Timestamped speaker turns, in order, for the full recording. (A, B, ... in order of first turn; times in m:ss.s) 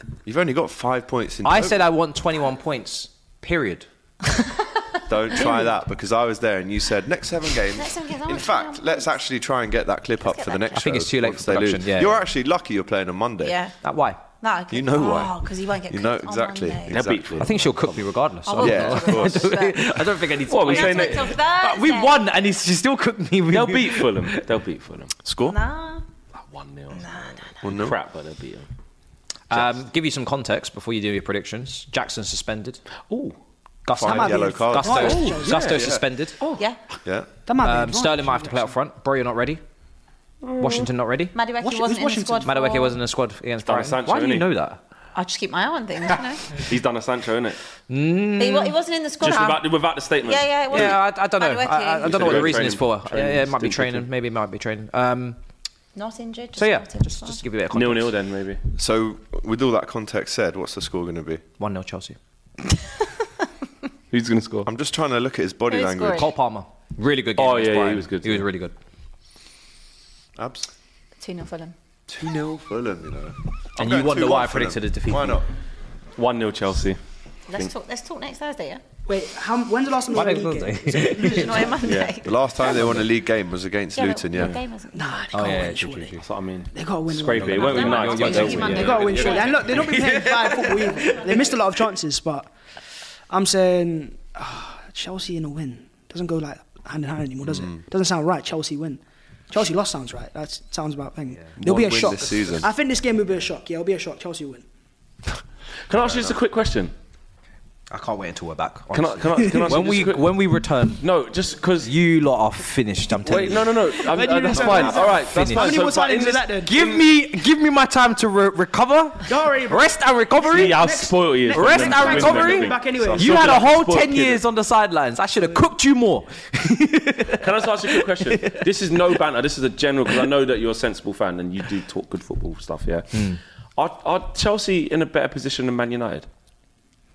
0:00.3-0:01.8 A
0:01.4-0:03.9 B
0:05.1-0:13.6 A
0:07.8-0:09.1 C
0:10.3-0:10.6 C
0:10.7-0:12.2 B
0:13.4-0:13.8 C
0:13.8-0:14.2 B
0:14.4-0:17.0 C
0:14.7-0:17.6 A
0:16.9-0:18.1 D
0:17.4-0:24.4 B
0:18.4-0:22.3 C
0:18.6-0:19.6 A
0:20.5-0:21.4 D
0:23.5-0:25.1 D
0:25.2-0:25.6 A
0:25.4-0:26.0 C
0:26.5-0:28.7 D
0:27.0-0:27.4 C
0:27.6-0:28.0 A
0:29.5-0:32.8 B
0:33.1-0:33.4 D
0:33.8-0:36.4 B
0:34.0-0:36.0 A
0:34.0-0:35.8 E
0:35.2-0:35.8 D
0:36.4-0:36.8 C
0:37.5-0:38.7 E
0:37.6-0:39.6 B
0:40.4-0:40.9 D
0:40.6-0:41.3 B
0:41.3-0:43.0 C
0:41.6-0:42.5 E
0:42.4-0:44.8 B
0:43.6-0:44.5 D
0:45.2-0:46.5 C
0:46.5-0:47.6 D
0:47.9-0:48.8 B
0:48.4-0:49.7 C
0:49.2-0:51.0 D
0:50.2-0:52.6 C
0:50.7-0:55.4 B
0:52.0-0:54.0 D
0:56.0-0:57.4 C
0:56.6-0:58.2 B
0:57.7-0:58.6 D
0:58.8-1:01.4 A
1:01.6-1:02.2 B
1:04.1-1:04.7 D
1:04.6-1:06.3 A
1:05.7-1:06.3 C
1:06.1-1:08.7 B
1:07.4-1:08.5 D
1:10.4-1:10.7 A
1:11.2-1:11.7 C
1:12.1-1:15.4 A
1:13.8-1:15.4 B
1:16.2-1:17.0 D
1:17.5-1:18.8 C
1:19.1-1:21.8 E
1:20.1-1:21.8 B
1:21.0-1:22.9 C
1:21.8-1:22.2 D
1:22.2-1:24.6 A
1:24.0-1:25.6 C
1:24.9-1:26.2 E
1:25.3-1:26.2 B
1:26.2-1:29.9 D
1:26.7-1:32.5 E
1:27.4-1:31.6 B
1:27.5-1:29.9 C
1:33.3-1:44.6 E
1:37.5-1:37.8 A
1:41.6-1:42.7 A
1:45.9-1:46.9 D
1:46.0-1:46.4 A
1:47.9-1:51.0 B
1:48.9-1:50.3 D
1:51.0-1:51.9 D
1:51.8-1:55.8 B
1:53.2-1:57.0 D
1:54.0-1:56.8 E
1:54.6-1:54.9 A
1:56.6-2:00.8 B
1:59.3-2:03.7 E
2:00.5-2:04.4 D
2:01.5-2:08.6 B
2:07.4-2:13.3 D
2:13.1-2:13.4 B
2:13.8-2:16.3 D